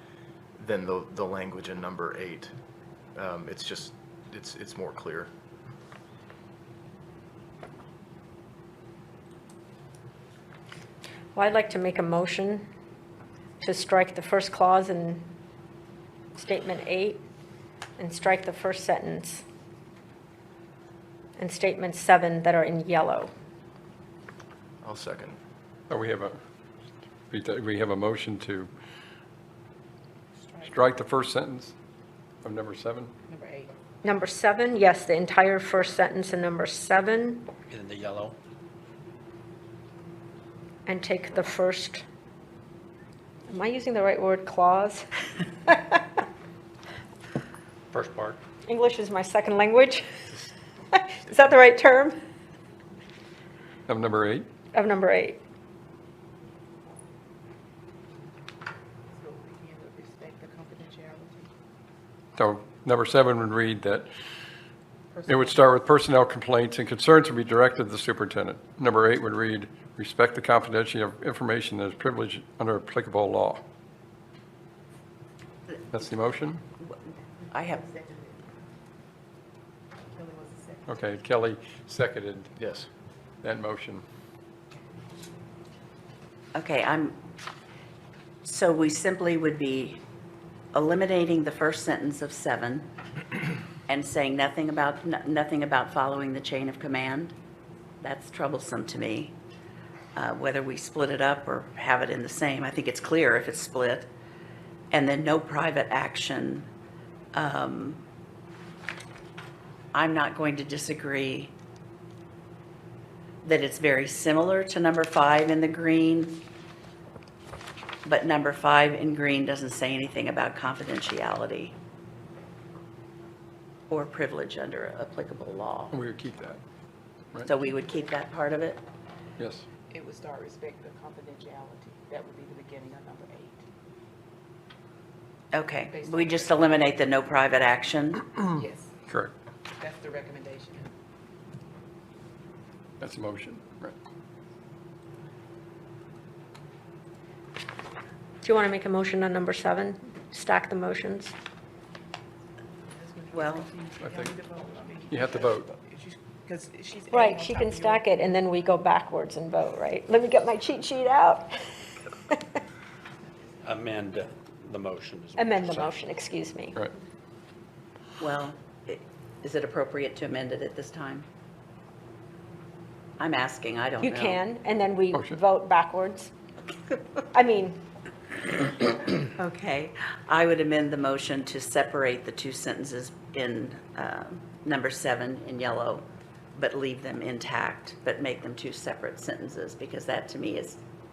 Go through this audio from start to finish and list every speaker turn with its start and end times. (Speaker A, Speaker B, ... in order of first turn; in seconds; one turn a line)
Speaker A: 0.6-2.5
Speaker A: 3.1-5.3
Speaker B: 11.3-12.7
Speaker B: 13.6-15.3
Speaker B: 16.3-17.2
Speaker B: 18.0-19.4
Speaker B: 21.4-23.3
Speaker A: 24.8-25.4
Speaker C: 25.9-26.3
Speaker C: 27.3-28.7
Speaker D: 30.5-30.7
Speaker C: 30.6-31.7
Speaker C: 32.4-33.1
Speaker D: 33.3-33.7
Speaker B: 34.0-37.5
Speaker E: 37.7-38.4
Speaker B: 40.9-42.0
Speaker B: 43.5-45.1
Speaker B: 45.6-46.0
Speaker E: 47.9-48.4
Speaker B: 48.6-50.1
Speaker B: 50.9-52.1
Speaker C: 53.9-54.5
Speaker B: 54.7-55.4
Speaker D: 59.1-61.5
Speaker C: 62.4-64.1
Speaker D: 65.1-65.6
Speaker C: 65.2-73.6
Speaker C: 75.9-76.6
Speaker F: 77.5-77.8
Speaker D: 77.6-78.4
Speaker D: 80.2-80.8
Speaker C: 80.9-82.5
Speaker A: 82.6-82.9
Speaker C: 83.4-84.0
Speaker F: 86.5-87.2
Speaker F: 88.4-90.0
Speaker F: 90.7-92.9
Speaker F: 93.9-97.3
Speaker F: 98.0-99.3
Speaker F: 100.2-104.1
Speaker F: 104.9-106.7
Speaker F: 107.3-108.0
Speaker F: 109.9-111.5
Speaker F: 113.4-116.4
Speaker F: 118.0-121.7
Speaker F: 123.9-126.0
Speaker C: 125.9-126.6
Speaker F: 127.4-128.8
Speaker C: 129.4-129.7
Speaker D: 129.9-133.6
Speaker F: 135.5-138.4
Speaker D: 135.9-136.9
Speaker D: 138.6-138.9
Speaker C: 139.1-139.3
Speaker D: 139.8-140.9
Speaker C: 143.0-143.9
Speaker B: 148.4-151.3
Speaker D: 152.9-158.0
Speaker F: 153.3-153.7
Speaker C: 154.0-154.3
Speaker C: 155.1-155.7
Speaker B: 157.1-161.5
Speaker E: 163.6-166.0
Speaker B: 165.4-166.8
Speaker F: 168.2-171.2
Speaker F: 173.2-174.4
Speaker B: 174.0-176.3
Speaker B: 177.3-177.8
Speaker F: 179.2-190.8